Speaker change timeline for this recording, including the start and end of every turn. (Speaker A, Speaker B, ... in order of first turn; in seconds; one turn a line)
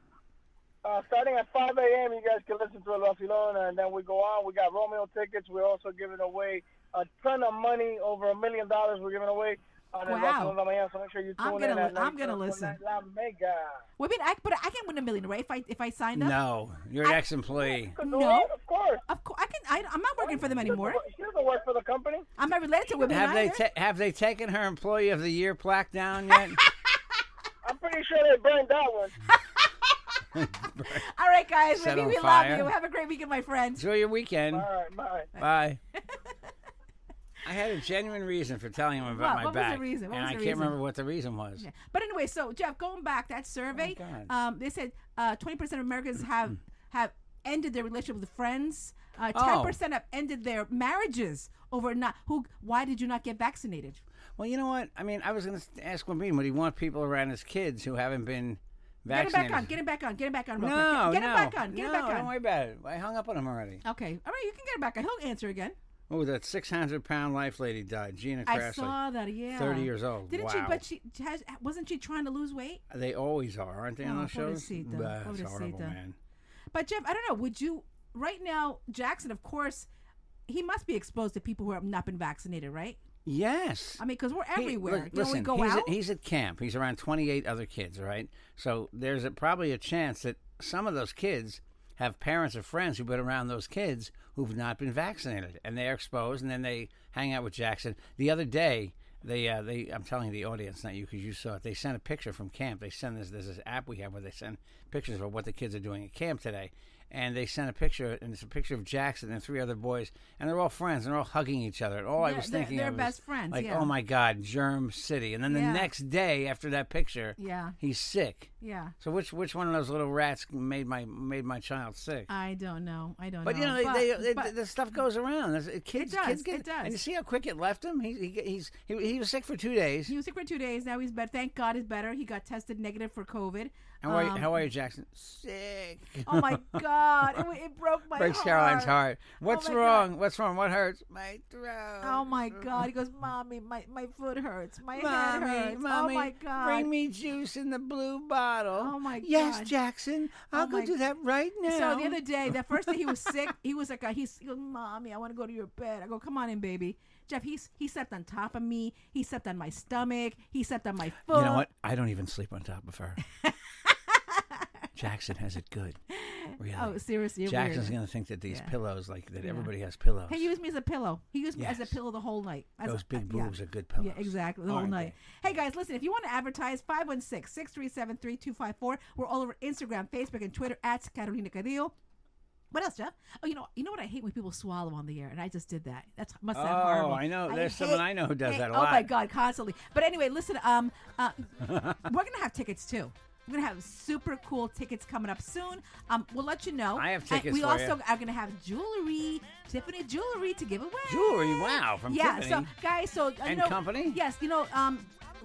Speaker A: 0.8-13.8
Speaker B: 10.1-10.5
Speaker B: 11.4-12.8
Speaker B: 14.0-16.4
Speaker C: 16.1-18.0
Speaker A: 17.6-19.0
Speaker B: 18.0-18.5
Speaker B: 19.1-21.0
Speaker A: 20.2-22.2
Speaker B: 22.4-23.6
Speaker C: 23.1-26.6
Speaker B: 26.3-26.9
Speaker A: 27.6-29.1
Speaker B: 29.3-30.0
Speaker C: 30.3-31.0
Speaker B: 30.9-33.8
Speaker C: 31.7-32.7
Speaker C: 33.8-34.7
Speaker A: 34.5-35.3
Speaker C: 35.4-35.8
Speaker B: 36.1-36.3
Speaker C: 37.4-41.6
Speaker B: 39.1-40.8
Speaker B: 41.6-54.0
Speaker C: 43.7-44.3
Speaker C: 49.3-49.8
Speaker C: 54.4-59.7
Speaker B: 59.1-62.3
Speaker C: 60.6-63.8
Speaker B: 63.8-65.8
Speaker C: 66.1-69.0
Speaker B: 68.5-72.8
Speaker C: 69.5-70.8
Speaker C: 72.9-76.1
Speaker B: 74.0-76.0
Speaker B: 76.7-79.9
Speaker B: 80.5-83.0
Speaker C: 83.2-84.0
Speaker B: 84.0-85.9
Speaker C: 84.5-122.3
Speaker B: 112.2-113.9
Speaker B: 115.5-115.9
Speaker B: 117.4-117.8
Speaker B: 118.6-118.9
Speaker B: 122.3-124.5
Speaker C: 123.4-130.1
Speaker B: 126.0-127.0
Speaker B: 130.1-134.6
Speaker C: 134.0-136.8
Speaker B: 136.2-140.1
Speaker C: 138.2-142.9
Speaker B: 142.0-146.9
Speaker C: 144.9-153.4
Speaker B: 148.8-149.7
Speaker B: 150.5-150.9
Speaker B: 151.6-161.7
Speaker C: 161.3-163.2
Speaker B: 163.4-164.7
Speaker C: 164.9-166.0
Speaker B: 166.1-168.0
Speaker C: 166.6-170.5
Speaker B: 168.5-168.7
Speaker B: 169.4-169.7
Speaker B: 170.3-181.9
Speaker C: 171.6-172.0
Speaker C: 172.8-175.6
Speaker B: 182.7-205.1
Speaker C: 186.5-189.1
Speaker C: 191.6-192.0
Speaker C: 196.9-198.0
Speaker C: 201.1-202.7
Speaker C: 203.4-204.2